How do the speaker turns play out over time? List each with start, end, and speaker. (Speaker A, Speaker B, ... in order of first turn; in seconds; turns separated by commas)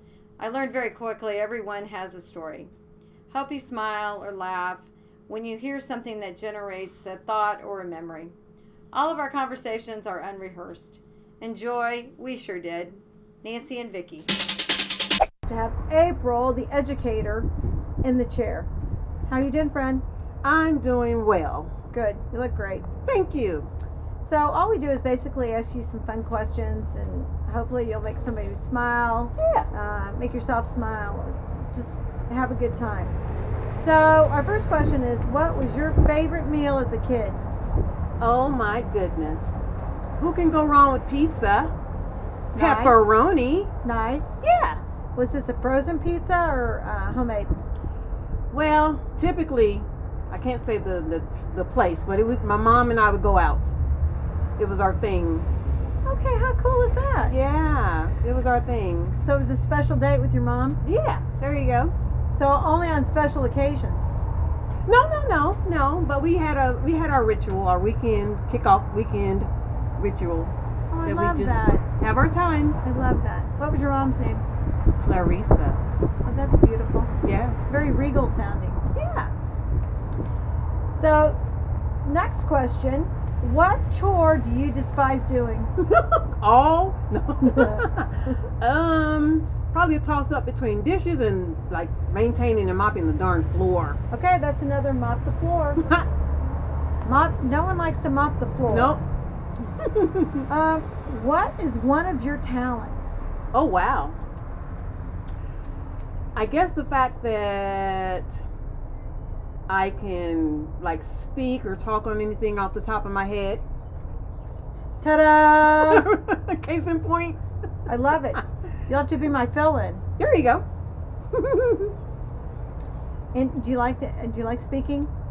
Speaker A: 0.4-2.7, Speaker A: 3.3-8.3, Speaker A: 8.9-14.3, Speaker A: 15.5-17.5, Speaker A: 18.0-18.7, Speaker A: 19.3-20.0, Speaker B: 20.4-21.7, Speaker A: 21.9-22.9, Speaker B: 23.0-23.7, Speaker A: 24.2-33.1, Speaker B: 29.4-29.7, Speaker A: 33.7-37.4, Speaker B: 38.2-39.5, Speaker B: 40.2-41.7, Speaker A: 42.5-43.1, Speaker B: 42.6-43.7, Speaker A: 43.8-44.4, Speaker B: 44.4-44.8, Speaker A: 45.1-47.5, Speaker B: 48.5-53.7, Speaker B: 54.6-55.5, Speaker A: 56.0-57.3, Speaker B: 57.3-59.2, Speaker A: 59.2-60.8, Speaker B: 60.8-61.9, Speaker A: 62.3-64.1, Speaker B: 64.9-72.8, Speaker A: 70.9-71.8, Speaker A: 72.8-74.4, Speaker B: 75.0-75.8, Speaker A: 76.2-77.1, Speaker B: 77.2-77.8, Speaker A: 77.7-78.8, Speaker B: 78.9-79.3, Speaker A: 80.9-81.4, Speaker A: 82.0-85.7, Speaker B: 85.8-94.0, Speaker A: 87.5-87.8, Speaker A: 94.1-95.9, Speaker A: 97.0-99.0, Speaker B: 98.7-99.0, Speaker B: 99.8-100.5, Speaker A: 100.5-103.3, Speaker B: 103.5-104.2, Speaker B: 106.3-108.4, Speaker B: 109.7-113.6, Speaker A: 115.0-116.1, Speaker B: 115.6-117.4, Speaker A: 117.9-120.0, Speaker B: 120.2-120.6, Speaker B: 121.3-121.9, Speaker A: 123.3-125.1